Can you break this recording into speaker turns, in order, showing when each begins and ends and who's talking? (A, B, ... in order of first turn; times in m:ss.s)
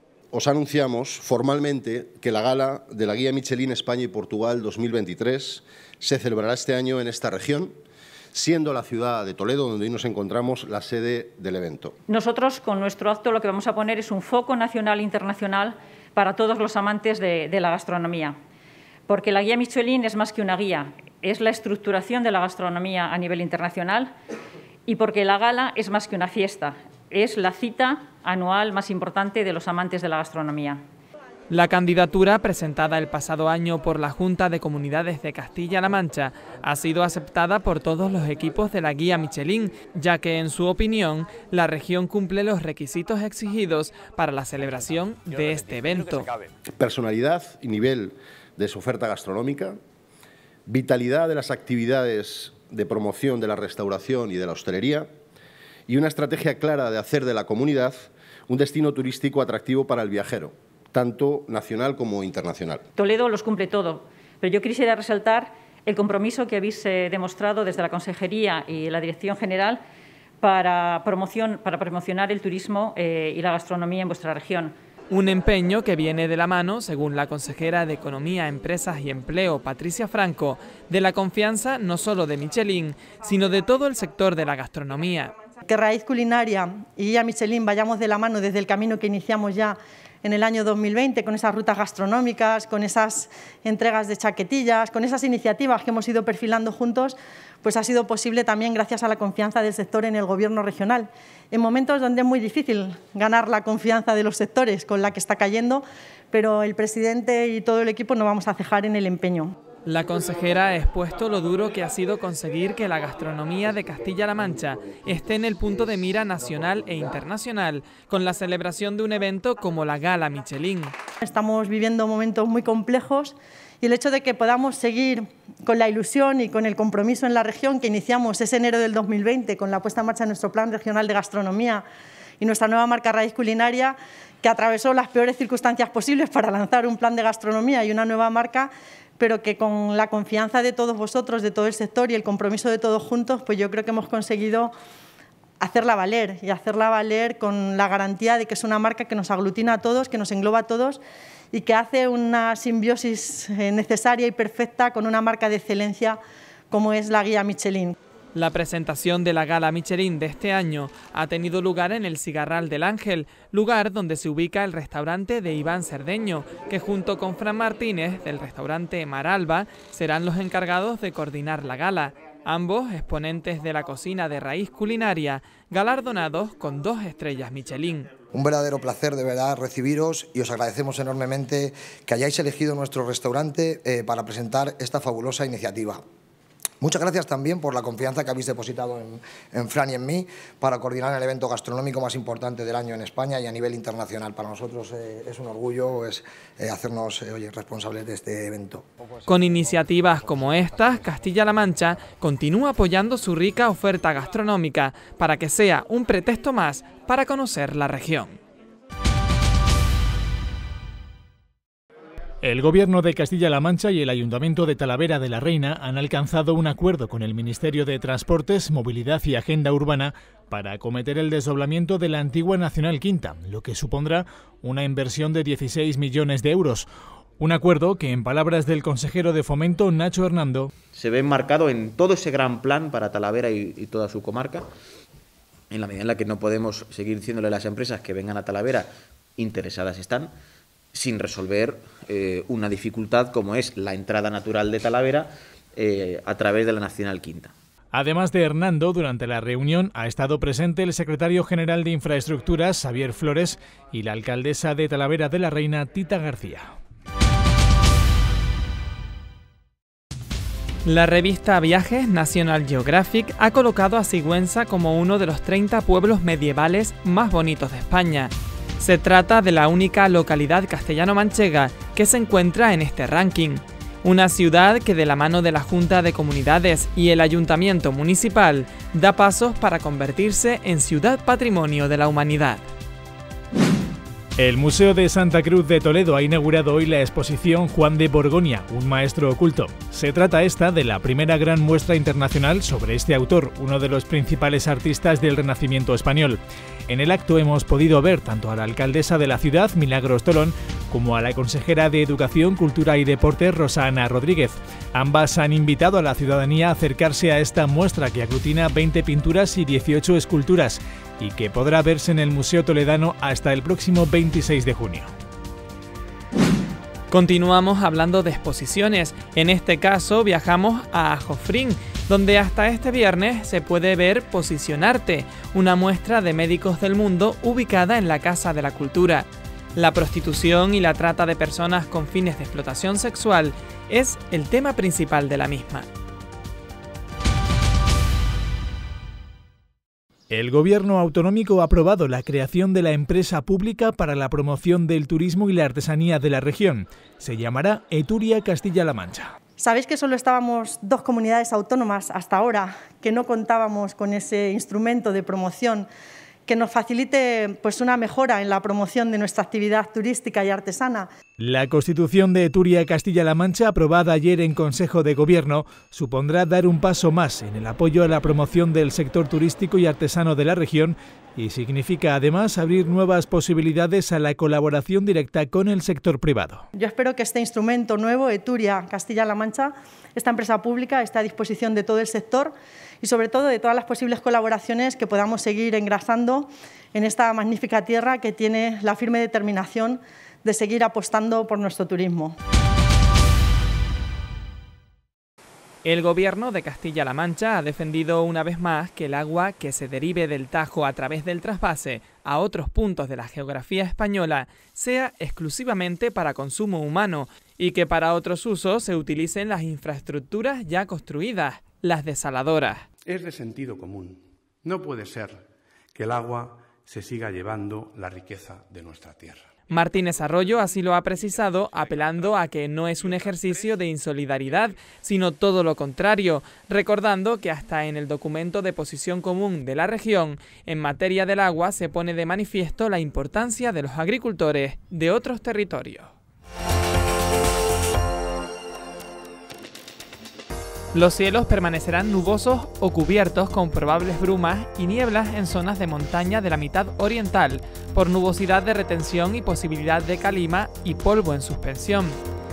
0:00.3-0:07.7 A
0:08.3-0:11.9 A
0:12.1-0:18.4 B
0:19.0-0:24.1 B
0:24.8-0:30.8 B
0:31.5-0:46.3 C
0:46.8-0:49.8 A
0:50.7-0:55.1 A
0:55.9-1:02.8 A
1:02.9-1:09.8 B
1:10.4-1:14.8 B
1:15.1-1:25.3 C
1:25.6-1:49.5 D
1:49.8-2:00.9 C
2:01.2-2:11.8 D
2:12.4-2:24.7 D
2:25.6-2:31.0 D
2:31.5-2:36.2 D
2:36.7-2:38.0 D
2:38.3-2:58.1 C
2:58.3-3:06.0 E
3:06.8-3:18.8 E
3:19.2-3:28.4 C
3:32.4-3:46.9 F
3:47.4-3:50.7 F
3:50.9-3:54.7 G
3:55.7-4:00.3 G
4:00.9-4:07.5 G
4:07.9-4:16.7 F
4:20.8-4:42.6 C
4:44.4-5:15.1 F
5:17.1-5:35.9 C
5:40.3-5:49.3 F
5:49.6-5:55.9 D
5:56.5-6:01.1 D
6:01.4-6:16.6 F
6:16.7-6:32.4 D
6:35.8-6:52.8 C
6:53.0-6:55.4 H
6:55.9-6:59.4 H
6:59.7-7:16.1 C
7:20.9-7:32.2 C